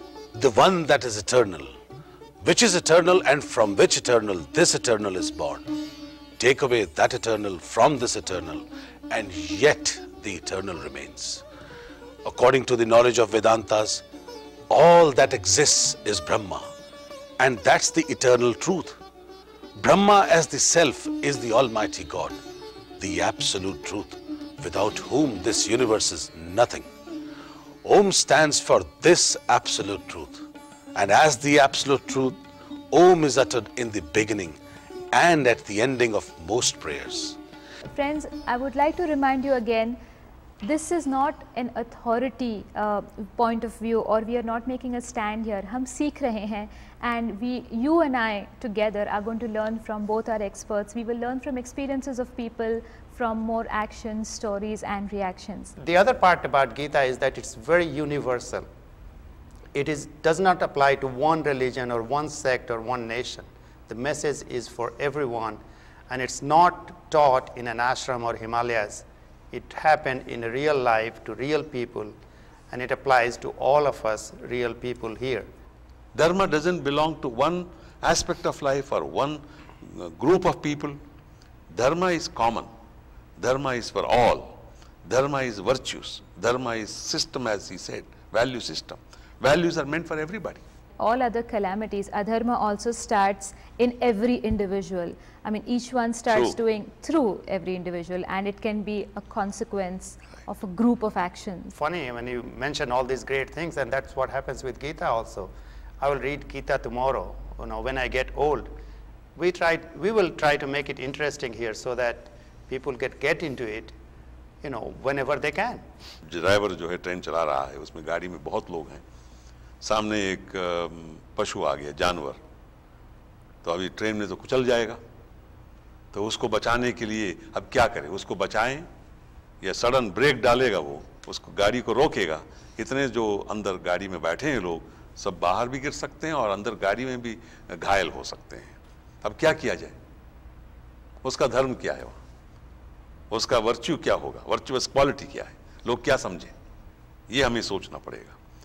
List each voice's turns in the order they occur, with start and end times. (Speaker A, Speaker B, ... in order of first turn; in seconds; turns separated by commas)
Speaker A: 0.3-1.7, Speaker A: 2.4-5.6, Speaker A: 6.4-11.4, Speaker A: 12.2-14.0, Speaker A: 14.7-16.7, Speaker A: 17.4-18.9, Speaker A: 19.8-22.4, Speaker A: 23.0-26.9, Speaker A: 27.8-30.4, Speaker A: 30.9-32.4, Speaker A: 32.9-34.6, Speaker A: 35.1-37.4, Speaker B: 37.9-40.0, Speaker B: 40.6-55.7, Speaker C: 55.8-58.6, Speaker C: 59.7-72.1, Speaker C: 72.7-75.5, Speaker D: 76.1-81.0, Speaker D: 81.7-82.7, Speaker D: 83.4-90.6, Speaker B: 91.0-101.7, Speaker D: 96.3-96.6, Speaker C: 101.7-108.7, Speaker C: 109.3-113.9, Speaker C: 114.6-115.8, Speaker D: 116.3-119.0, Speaker D: 119.8-122.4, Speaker D: 123.6-125.0, Speaker D: 126.1-128.9, Speaker D: 129.6-139.9, Speaker D: 141.2-142.2, Speaker D: 143.3-146.5, Speaker D: 147.3-148.3